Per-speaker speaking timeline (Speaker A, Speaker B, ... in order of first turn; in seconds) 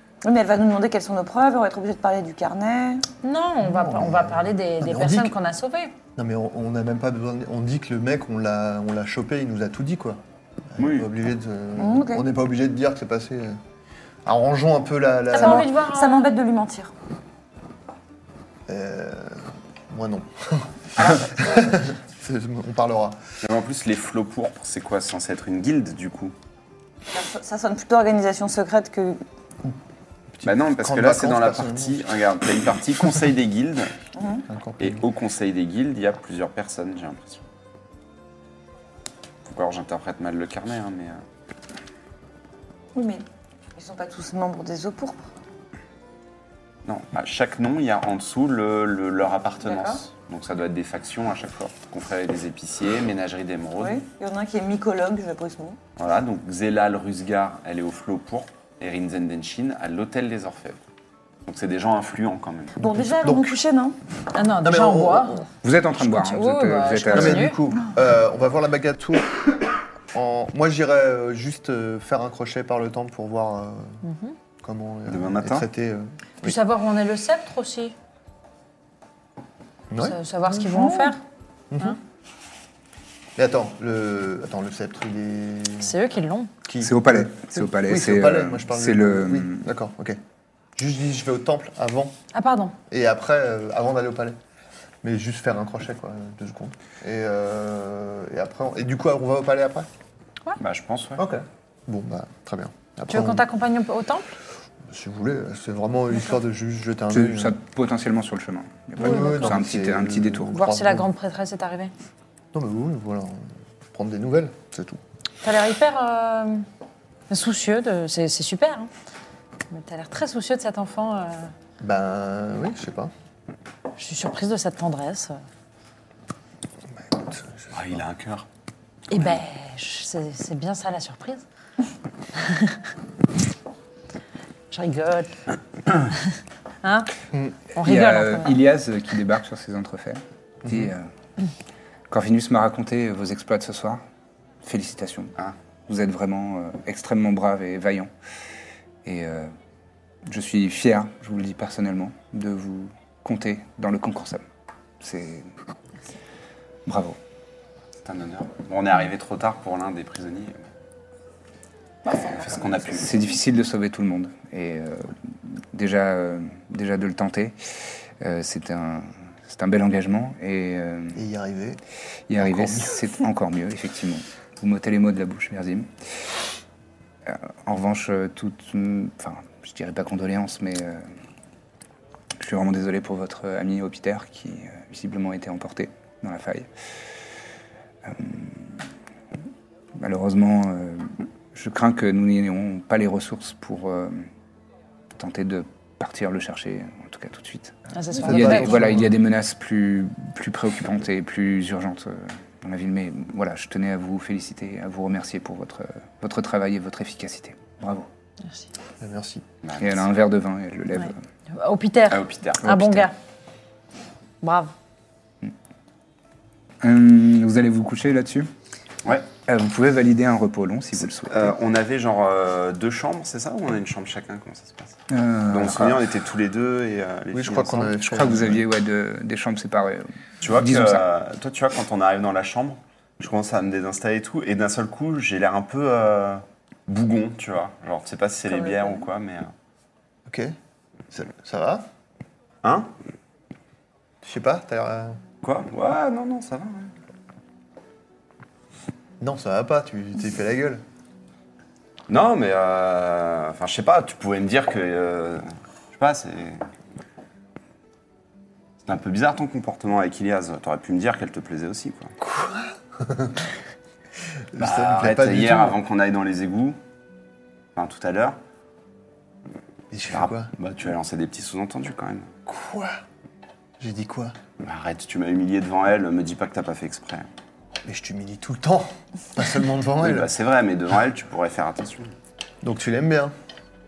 Speaker A: 0.2-3.0, 11.8-12.2, 15.3-16.9, 21.0-21.4, 27.1-29.2, 34.2-34.5, 43.0-43.2, 43.8-45.2, 49.6-50.0, 53.8-55.8, 62.8-64.0, 238.5-239.0
Speaker B: 3.2-5.9, 15.3-16.3, 64.3-65.5, 66.0-67.6, 74.0-74.3, 76.4-78.0, 80.0-81.2, 85.8-86.5, 92.3-92.8, 103.1-104.3, 109.0-109.6, 110.5-111.9, 115.4-116.7, 117.3-118.9, 119.7-121.5, 124.0-125.4, 129.1-131.4, 132.3-132.8, 134.7-135.3, 136.8-137.1, 137.8-138.6, 197.9-198.8, 210.9-213.1, 214.4-214.7
Speaker C: 3.6-5.3, 6.2-10.2, 10.7-13.6, 14.2-15.7, 18.7-23.2, 30.4-32.0, 34.5-35.0, 62.8-63.6, 64.6-65.5, 67.1-74.0, 74.6-76.6, 79.9-81.2, 81.7-82.0, 83.4-86.0, 86.7-90.2, 90.8-92.1, 92.9-94.4, 95.0-99.9, 101.2-103.5, 104.9-107.6, 109.0-111.1, 112.5-115.0, 121.8-123.1, 127.0-128.0, 171.2-171.8, 172.4-172.9, 198.2-199.1, 209.0-209.4, 227.3-228.6, 240.3-240.5, 241.1-241.8, 244.2-245.2, 249.2-250.8, 262.2-263.5, 264.5-265.8, 269.9-270.5, 272.5-273.0, 273.8-274.3, 277.9-280.3, 282.6-283.3
Speaker D: 10.8-11.1, 23.4-26.3, 30.4-33.9, 34.8-37.4, 39.5-41.2, 46.9-54.0, 56.0-60.8, 61.5-62.8, 75.1-75.7, 100.6-101.2, 127.7-128.5, 158.1-160.6, 162.2-163.2, 209.6-210.1, 212.1-212.6, 221.1-228.0, 230.4-239.5, 242.6-242.9, 245.4-246.9, 252.1-256.6, 258.9-262.1, 264.6-266.8, 267.8-268.4, 270.1-272.4, 274.6-277.3, 280.0-282.1
Speaker E: 65.6-67.6, 86.8-89.7, 107.1-110.5, 137.8-141.1, 142.1-144.0, 144.6-145.3, 145.9-148.1, 149.0-149.5, 150.2-154.4, 155.0-155.5, 156.9-157.2, 162.9-167.6, 168.2-171.2, 172.3-175.9, 177.2-181.0, 182.4-186.7, 188.0-188.9, 190.0-194.3, 195.1-208.1, 209.8-211.2, 212.6-213.1, 216.8-218.5, 219.5-221.6, 225.1-226.0, 228.1-231.0